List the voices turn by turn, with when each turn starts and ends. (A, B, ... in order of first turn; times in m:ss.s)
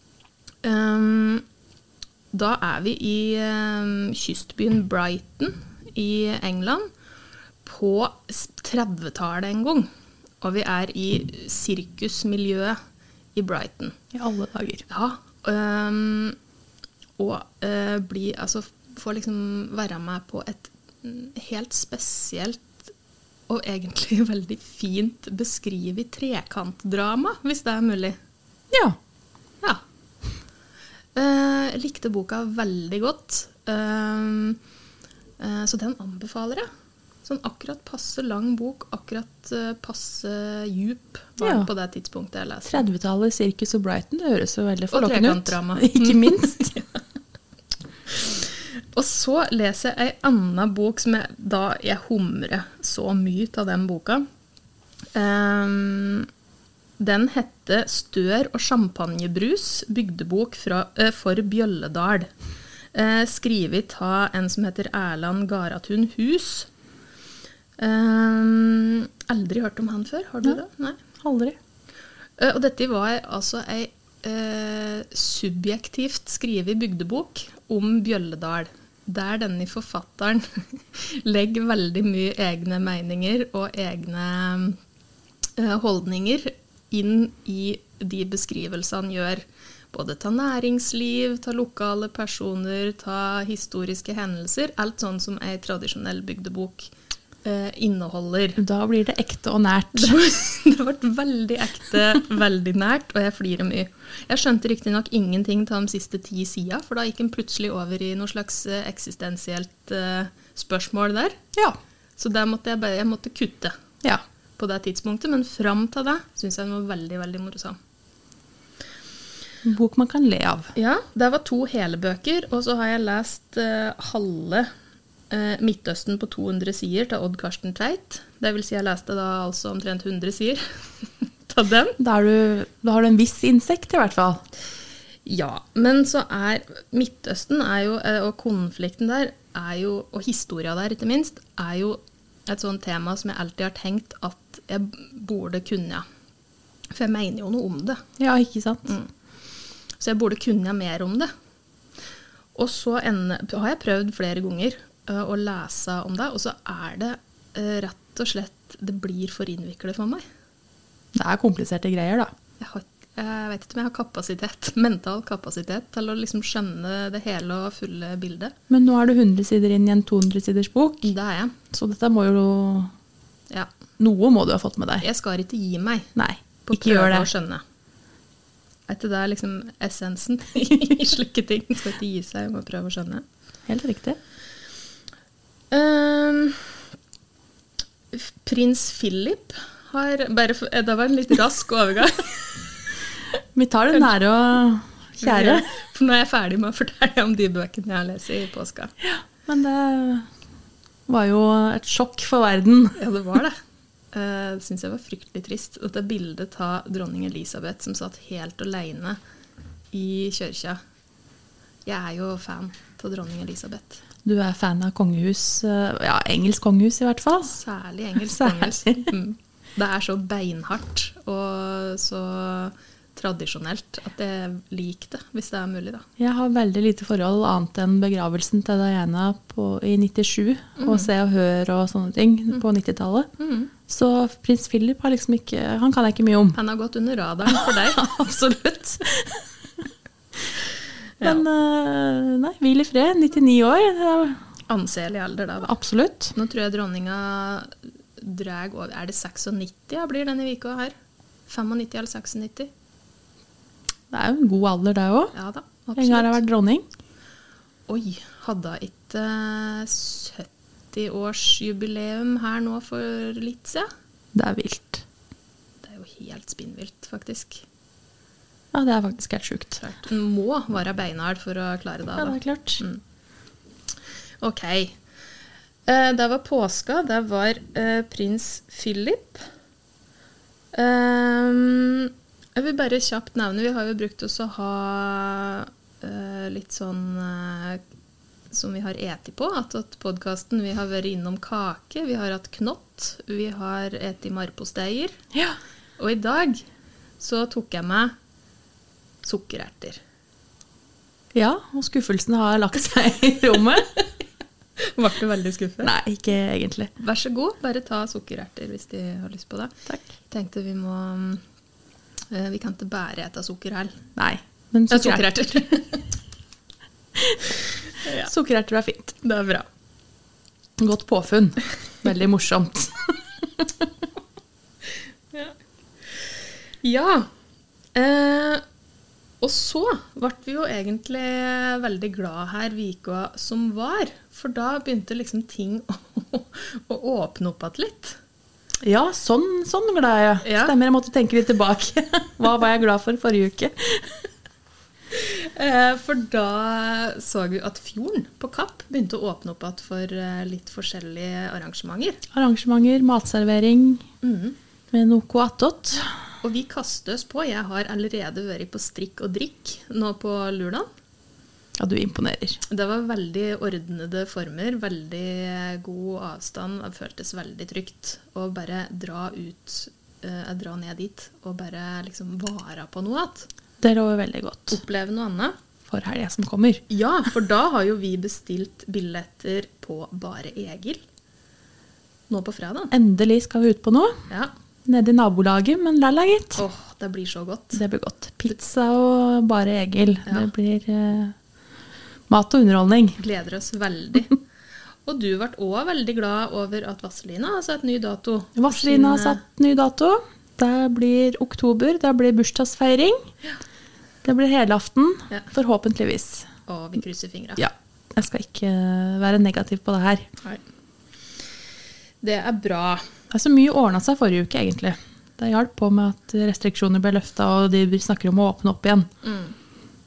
0:00.6-0:01.4 A
0:02.3-0:06.9 A
0:07.6-0:09.9 A
0:10.4-0:12.8 A
0:13.4-0:13.9 A
0:14.1-0:14.8 B
0:14.9-0:16.4 A
0:17.2-0:22.8 A
0:23.5-0:28.2 A
0:28.7-0:29.0 B
0:31.2-0:34.6 A
0:35.4-0:36.7 A
0:37.2-0:42.8 A
0:41.4-0:41.7 B
0:42.7-0:46.7 B
0:44.9-0:47.0 A
0:48.2-0:54.2 A
0:55.1-0:56.3 A
0:57.0-1:02.3 A
1:02.9-1:06.7 A
1:07.8-1:11.0 A
1:11.2-1:11.6 B
1:12.4-1:24.8 A
1:25.6-1:36.9 A
1:37.4-1:38.6 A
1:38.6-1:40.2 B
1:39.9-1:51.4 A
1:52.2-1:53.7 A
1:54.6-1:57.8 A
1:59.6-2:00.7 B
2:00.8-2:04.7 A
2:05.3-2:12.0 A
2:12.0-2:14.4 B
2:15.2-2:26.0 A
2:26.9-2:28.0 A
2:28.2-2:28.9 B
2:28.9-2:29.1 A
2:30.0-2:31.3 A
2:32.6-2:40.2 A
2:41.1-2:42.3 B
2:42.6-2:48.5 A
2:48.7-2:51.1 B
2:51.0-2:51.6 A
2:51.7-2:52.9 B
2:54.0-2:55.0 B
2:55.0-2:56.1 A
2:56.1-2:57.3 B
2:56.7-2:57.6 A
2:58.9-3:03.2 A
3:03.7-3:04.2 B
3:05.7-3:06.7 A
3:08.1-3:12.6 A
3:13.6-3:15.6 B
3:15.2-3:18.9 A
3:19.0-3:20.3 B
3:21.1-3:23.0 B
3:23.0-3:23.6 A
3:24.1-3:29.2 A
3:29.9-3:30.8 A
3:31.8-3:34.0 A
3:34.2-3:37.6 B
3:37.5-3:46.0 A
3:38.3-3:39.1 B
3:46.2-3:53.3 B
3:50.8-3:51.1 A
3:53.4-3:53.7 A
3:53.9-3:56.6 B
3:56.6-3:58.0 A
3:57.5-3:59.5 B
4:01.2-4:01.5 A
4:01.2-4:04.4 B
4:04.7-4:05.7 A
4:05.6-4:06.4 B
4:06.4-4:10.9 A
4:11.5-4:12.7 A
4:14.1-4:15.4 B
4:15.4-4:16.4 A
4:16.0-4:16.9 B
4:17.9-4:23.9 A
4:24.3-4:25.0 B
4:25.8-4:27.6 A
4:28.7-4:29.8 B
4:29.8-4:33.0 A
4:32.2-4:32.8 B
4:34.4-4:35.0 A
4:35.9-4:39.5 A
4:40.7-4:47.8 A
4:48.5-4:55.1 A
4:56.0-4:56.6 A
4:57.2-4:58.1 A
4:59.2-5:00.0 A
5:01.3-5:03.9 B
5:05.0-5:05.9 A
5:05.8-5:06.9 B
5:07.0-5:09.7 A
5:10.3-5:11.4 A
5:12.3-5:13.9 A
5:14.2-5:15.3 B
5:14.9-5:16.1 A
5:18.0-5:18.3 A
5:18.2-5:19.2 B
5:19.2-5:19.6 A
5:20.8-5:23.7 B
5:26.8-5:27.3 A
5:28.0-5:28.6 A
5:29.4-5:38.2 A
5:38.8-5:44.3 B
5:40.4-5:40.7 A
5:45.1-5:52.2 A
5:52.3-5:54.0 B
5:54.2-5:54.6 A
5:54.9-5:56.1 B
5:56.4-6:00.9 A
6:01.8-6:02.6 B
6:02.7-6:13.5 A
6:13.8-6:14.8 B
6:14.7-6:15.6 A
6:15.9-6:16.8 B
6:16.9-6:21.0 A
6:22.3-6:22.9 A
6:22.9-6:24.2 B
6:24.9-6:26.6 B
6:26.6-6:27.8 A
6:27.7-6:31.3 B
6:32.3-6:33.2 B
6:33.2-6:34.4 A
6:35.1-6:39.4 A
6:38.6-6:43.2 B
6:44.2-6:46.5 B
6:46.7-6:47.6 A
6:47.6-6:50.3 B
6:52.2-6:53.0 A
6:53.3-6:59.1 B
6:59.2-6:59.6 A